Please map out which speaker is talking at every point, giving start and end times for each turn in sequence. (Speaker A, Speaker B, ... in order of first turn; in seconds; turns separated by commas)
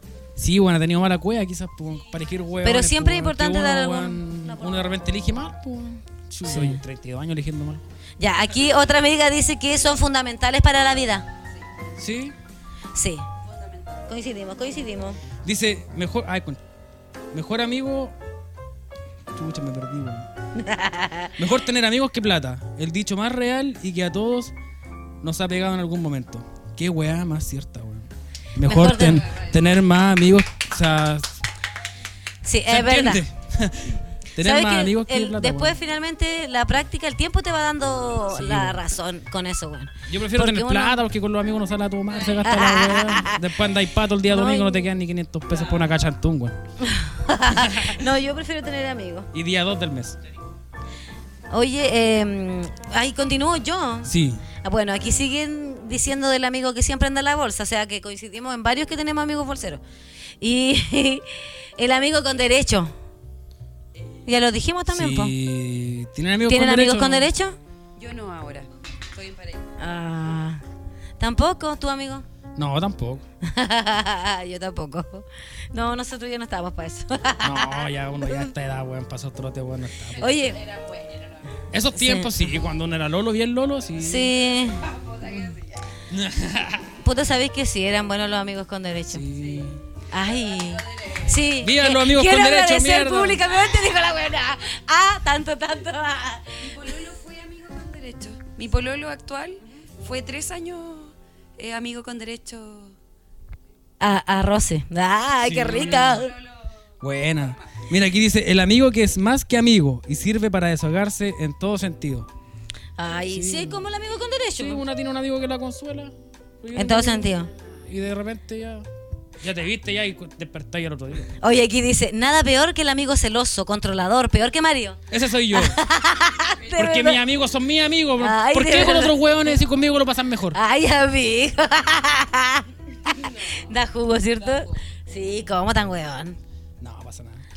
Speaker A: 0.4-7.8, Speaker B: 2.6-4.6, Speaker B: 6.5-6.8, Speaker B: 8.2-11.3, Speaker A: 12.0-12.4, Speaker B: 12.9-13.3, Speaker B: 14.1-15.2, Speaker A: 15.4-16.6, Speaker A: 17.3-18.2, Speaker A: 19.3-20.3, Speaker B: 20.6-21.3, Speaker A: 21.4-24.5, Speaker A: 25.2-31.4, Speaker B: 28.6-29.3, Speaker B: 32.4-33.2, Speaker A: 32.7-35.8, Speaker B: 34.4-41.0, Speaker A: 38.3-38.8, Speaker A: 40.1-46.6, Speaker B: 42.4-43.4, Speaker B: 44.3-44.9, Speaker B: 46.8-49.3, Speaker A: 47.5-48.0, Speaker A: 49.3-50.2, Speaker B: 51.5-54.1, Speaker A: 54.0-54.4, Speaker B: 54.6-59.8, Speaker B: 60.4-61.3, Speaker B: 61.8-62.9, Speaker B: 64.2-65.3, Speaker A: 64.9-67.3, Speaker B: 66.5-67.6, Speaker C: 68.0-69.7, Speaker B: 69.8-70.6, Speaker B: 71.2-72.3, Speaker A: 72.6-73.2, Speaker B: 73.4-78.5, Speaker A: 77.4-80.3, Speaker B: 80.2-80.6, Speaker C: 80.7-81.3, Speaker A: 81.7-84.3, Speaker B: 81.9-82.3, Speaker B: 84.0-84.9, Speaker A: 85.2-85.5, Speaker A: 86.1-86.9, Speaker B: 87.0-89.2, Speaker A: 89.1-89.8, Speaker B: 90.1-96.7, Speaker A: 91.6-93.5, Speaker C: 96.6-103.0, Speaker B: 104.0-106.3, Speaker A: 105.4-106.2, Speaker C: 105.9-106.5, Speaker A: 107.0-112.3, Speaker B: 113.0-114.8, Speaker A: 113.3-113.8, Speaker A: 114.6-117.3, Speaker B: 116.8-117.5, Speaker A: 117.9-118.9, Speaker A: 119.4-121.3, Speaker B: 121.4-125.0, Speaker A: 125.1-125.8, Speaker B: 125.5-127.2, Speaker A: 126.7-130.6, Speaker B: 128.2-129.2, Speaker B: 130.5-136.4, Speaker A: 136.8-137.4